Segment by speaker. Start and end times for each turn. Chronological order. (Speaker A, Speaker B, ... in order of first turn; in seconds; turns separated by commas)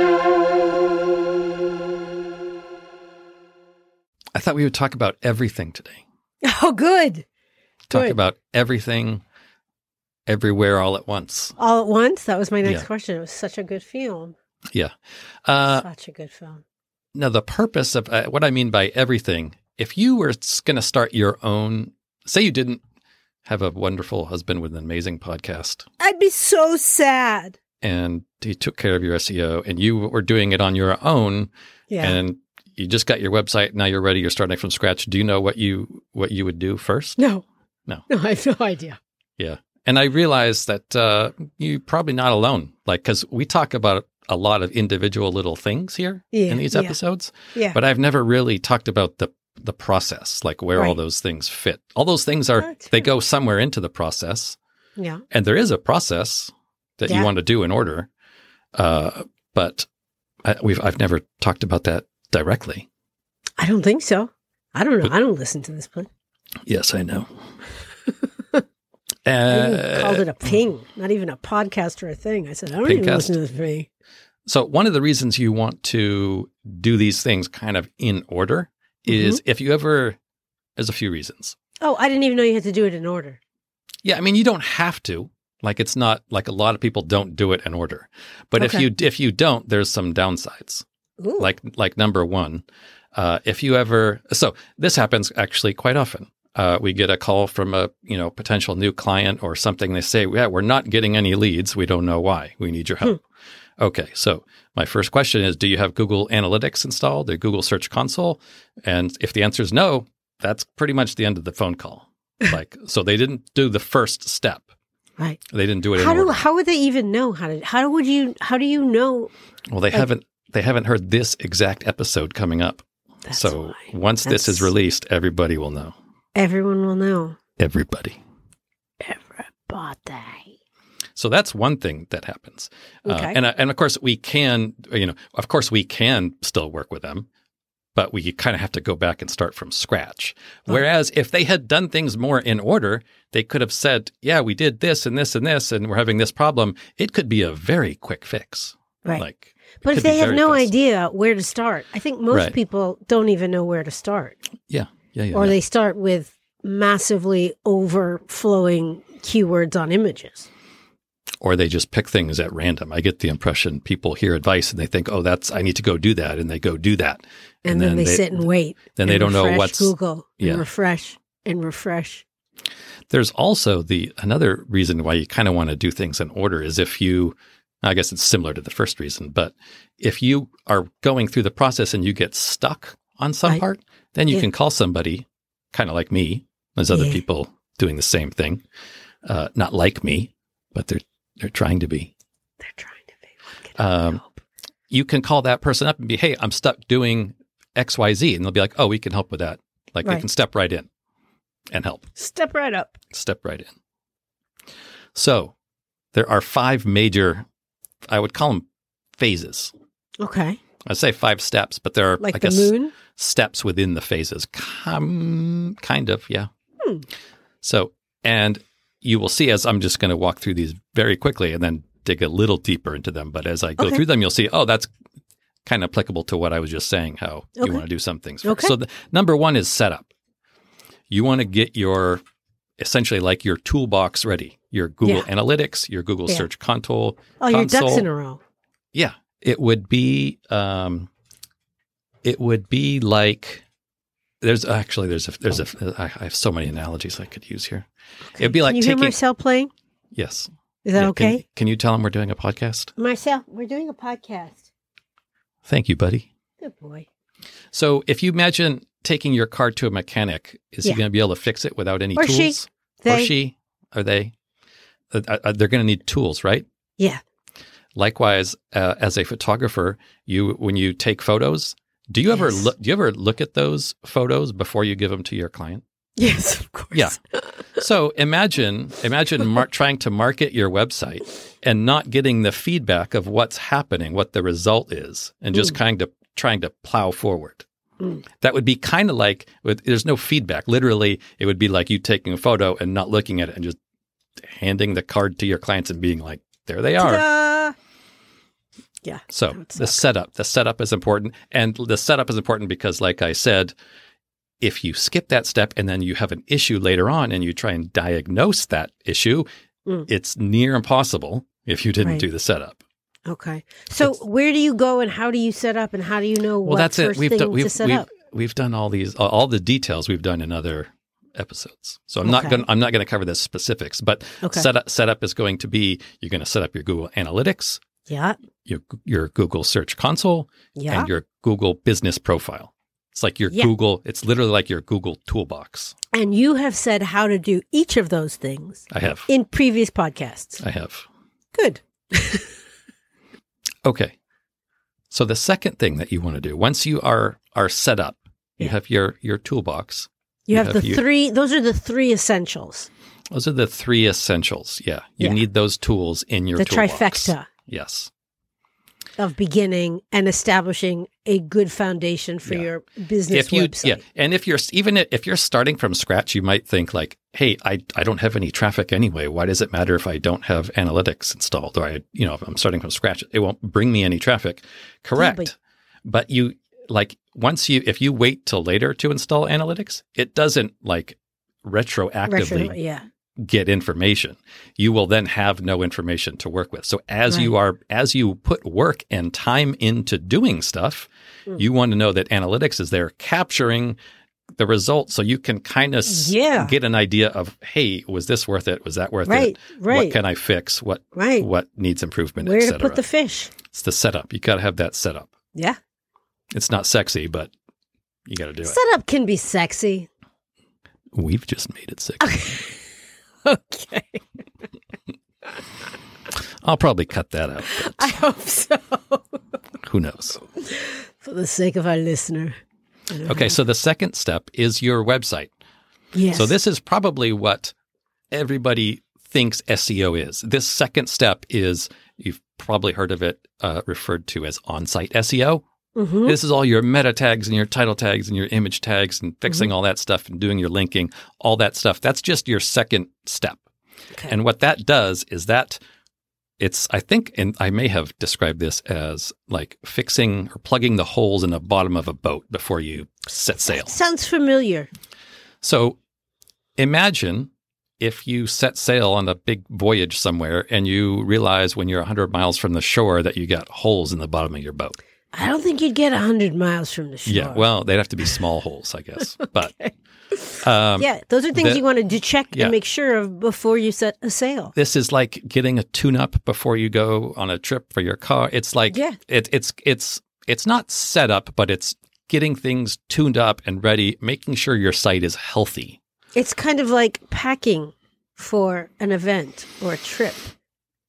Speaker A: 4.3-6.0, Speaker B: 6.4-7.3, Speaker A: 7.9-9.2, Speaker B: 7.9-8.2, Speaker A: 10.3-11.6, Speaker B: 11.6-14.3, Speaker A: 15.5-15.9, Speaker B: 15.6-16.6, Speaker A: 17.1-22.8, Speaker A: 23.5-25.8, Speaker B: 26.0-27.6, Speaker A: 27.8-37.2, Speaker B: 31.9-32.2, Speaker B: 37.2-37.5, Speaker B: 38.1-39.0, Speaker A: 39.4-54.6, Speaker B: 46.3-47.0, Speaker B: 52.6-53.1, Speaker B: 55.0-55.2, Speaker A: 55.3-58.1, Speaker A: 58.8-59.9, Speaker A: 60.5-62.9, Speaker B: 63.6-66.1, Speaker A: 66.7-67.3, Speaker A: 69.3-70.3, Speaker B: 69.5-73.9, Speaker A: 72.8-73.3, Speaker A: 74.5-80.2, Speaker B: 79.1-79.4, Speaker A: 80.8-81.6, Speaker B: 81.8-83.4, Speaker A: 84.0-90.8, Speaker B: 88.6-88.8, Speaker B: 91.2-91.5, Speaker A: 91.4-92.6, Speaker A: 93.2-103.2, Speaker A: 103.8-114.7, Speaker A: 115.5-116.4, Speaker B: 116.0-119.3, Speaker A: 119.7-125.9, Speaker B: 123.3-124.7, Speaker B: 126.3-127.4, Speaker A: 127.6-128.2, Speaker B: 129.0-130.5, Speaker A: 131.2-137.3, Speaker B: 133.1-133.4, Speaker A: 138.0-150.7, Speaker B: 149.8-154.4, Speaker A: 154.7-155.6, Speaker B: 155.3-160.5, Speaker A: 161.4-168.4, Speaker B: 167.7-172.2, Speaker A: 169.0-170.7, Speaker A: 173.1-188.6, Speaker B: 186.9-187.2, Speaker A: 189.3-192.1, Speaker B: 192.6-194.4, Speaker A: 193.8-194.2, Speaker A: 194.9-200.9, Speaker A: 201.7-202.1, Speaker B: 202.2-203.0, Speaker A: 203.1-203.7, Speaker A: 205.2-205.5, Speaker A: 206.1-207.4, Speaker A: 208.1-208.7, Speaker A: 209.2-209.7, Speaker B: 210.2-210.6, Speaker A: 210.9-216.5, Speaker B: 212.2-212.9, Speaker A: 217.6-224.9, Speaker B: 223.8-224.0, Speaker A: 225.7-230.1, Speaker B: 227.6-227.8, Speaker B: 228.4-228.7, Speaker A: 231.1-232.2, Speaker A: 232.8-238.1, Speaker B: 237.4-238.4, Speaker A: 238.9-241.1, Speaker A: 242.2-243.6, Speaker A: 244.4-249.2, Speaker B: 248.3-249.7, Speaker A: 250.2-252.9, Speaker B: 250.8-251.4, Speaker B: 253.0-254.7, Speaker A: 255.7-256.3, Speaker B: 256.6-257.1, Speaker A: 257.7-264.3, Speaker B: 262.2-263.3, Speaker A: 265.1-266.6, Speaker A: 268.0-275.8, Speaker B: 272.3-272.7, Speaker B: 276.2-277.6, Speaker A: 277.8-287.6, Speaker A: 288.4-293.8, Speaker A: 294.4-297.3, Speaker B: 297.0-297.8, Speaker B: 299.0-300.0, Speaker A: 299.3-303.7, Speaker A: 304.6-309.5, Speaker A: 310.1-312.8, Speaker B: 313.3-318.1, Speaker A: 316.6-327.8, Speaker B: 322.2-322.6, Speaker B: 324.4-324.7, Speaker B: 328.1-328.4, Speaker A: 328.6-335.9, Speaker B: 330.8-331.1, Speaker B: 336.1-340.6, Speaker A: 338.9-339.3, Speaker A: 340.6-341.1, Speaker B: 341.6-342.5, Speaker A: 343.8-344.1, Speaker A: 345.1-351.0, Speaker B: 350.5-352.9, Speaker A: 353.3-358.1, Speaker B: 356.6-357.5, Speaker B: 359.2-364.0, Speaker A: 363.3-382.8, Speaker B: 375.2-375.5, Speaker B: 382.3-383.1, Speaker A: 383.4-394.0, Speaker A: 394.6-403.0, Speaker B: 396.1-396.7, Speaker B: 399.3-400.2, Speaker B: 401.1-401.5, Speaker B: 402.4-403.5, Speaker A: 403.7-405.3, Speaker A: 406.5-407.5, Speaker A: 408.3-408.8, Speaker B: 408.6-410.1, Speaker A: 411.1-412.4, Speaker B: 412.2-412.8, Speaker B: 413.4-414.2, Speaker A: 416.6-418.2, Speaker B: 417.6-419.4, Speaker A: 419.9-420.4, Speaker B: 420.6-422.6, Speaker B: 423.1-423.6, Speaker A: 423.3-425.5, Speaker B: 426.1-426.5, Speaker A: 426.3-427.7, Speaker A: 428.3-435.6, Speaker B: 436.0-436.4, Speaker A: 436.2-443.6, Speaker A: 444.3-445.8, Speaker A: 446.6-453.9, Speaker B: 453.7-454.9, Speaker A: 455.6-456.0, Speaker A: 456.8-465.0, Speaker B: 465.3-467.7, Speaker A: 467.3-469.7, Speaker B: 469.4-474.7, Speaker A: 470.6-471.9, Speaker A: 474.8-486.0, Speaker B: 478.9-479.2, Speaker B: 486.4-490.5